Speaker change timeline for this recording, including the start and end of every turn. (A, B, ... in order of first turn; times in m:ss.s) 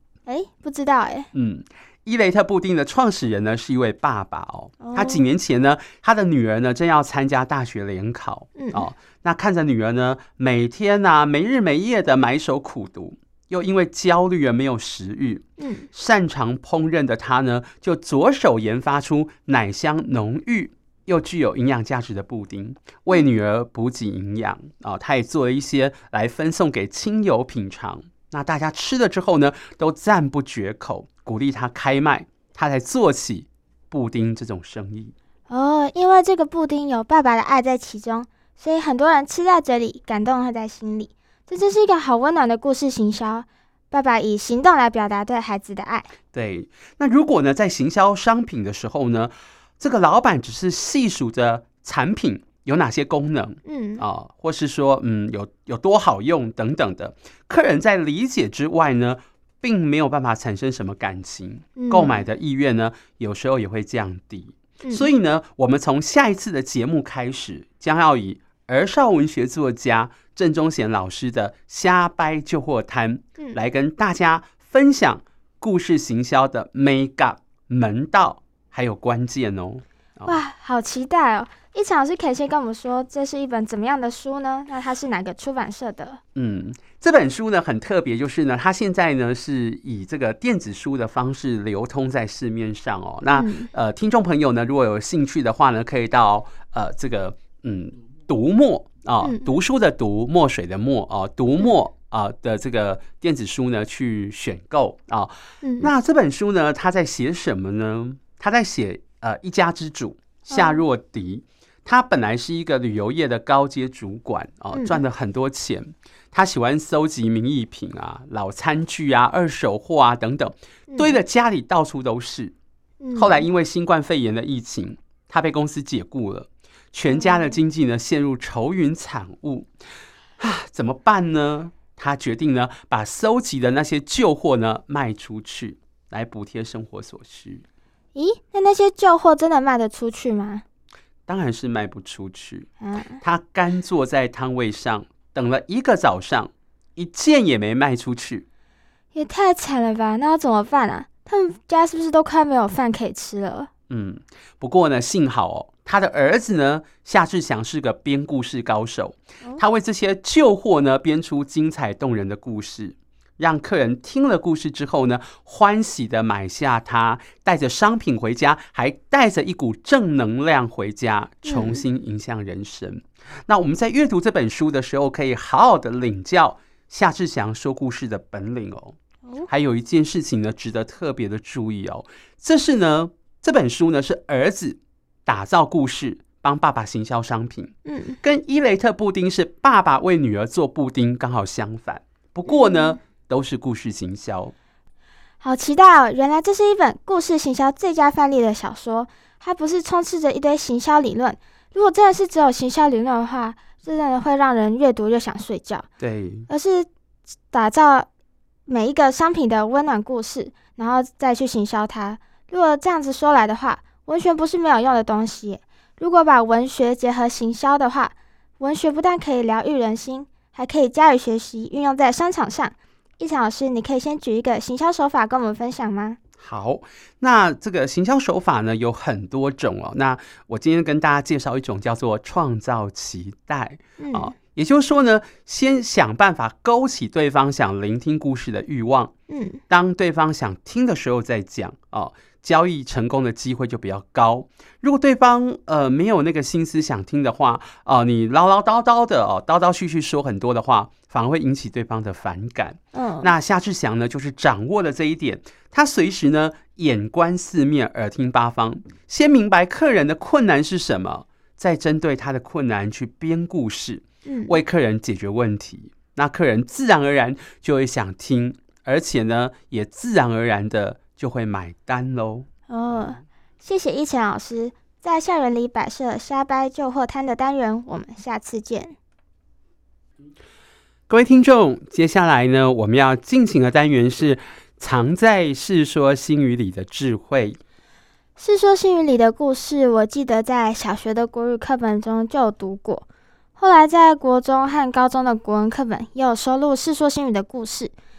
0:00.3-0:01.3 A
0:01.3-0:35.1 B
0:04.8-0:05.2 A
0:08.6-0:08.9 A
0:15.6-0:15.9 A
0:35.5-0:46.1 A
0:46.3-1:20.4 B
0:53.6-0:54.0 A
1:01.8-1:02.2 A
1:04.8-1:05.1 A
1:20.2-1:26.2 A
1:26.4-2:02.5 B
1:33.3-1:33.7 A
1:45.6-1:45.9 A
1:50.5-1:50.8 A
1:54.7-1:55.0 A
2:00.9-2:01.2 A
2:03.0-2:03.4 A
2:03.1-2:09.7 B
2:07.1-2:07.6 A
2:10.4-2:17.6 B
2:18.1-2:20.6 A
2:21.3-2:22.7 B
2:22.8-2:23.2 A
2:23.2-2:28.4 B
2:29.1-2:33.7 A
2:33.9-2:59.0 B
2:51.4-2:51.8 A
2:59.5-3:14.5 B
3:07.8-3:08.2 A
3:12.5-3:13.0 A
3:15.4-3:25.9 A
3:26.0-3:26.5 B
3:26.5-3:26.9 A
3:27.5-3:28.1 A
3:28.7-3:46.2 A
3:46.4-3:59.1 B
3:54.0-3:54.3 A
3:59.3-3:59.6 A
3:59.7-4:32.5 B
4:12.9-4:13.3 A
4:24.2-4:24.6 A
4:32.7-4:38.9 A
4:41.1-4:47.6 B
4:48.4-4:53.0 A
4:53.6-4:57.9 A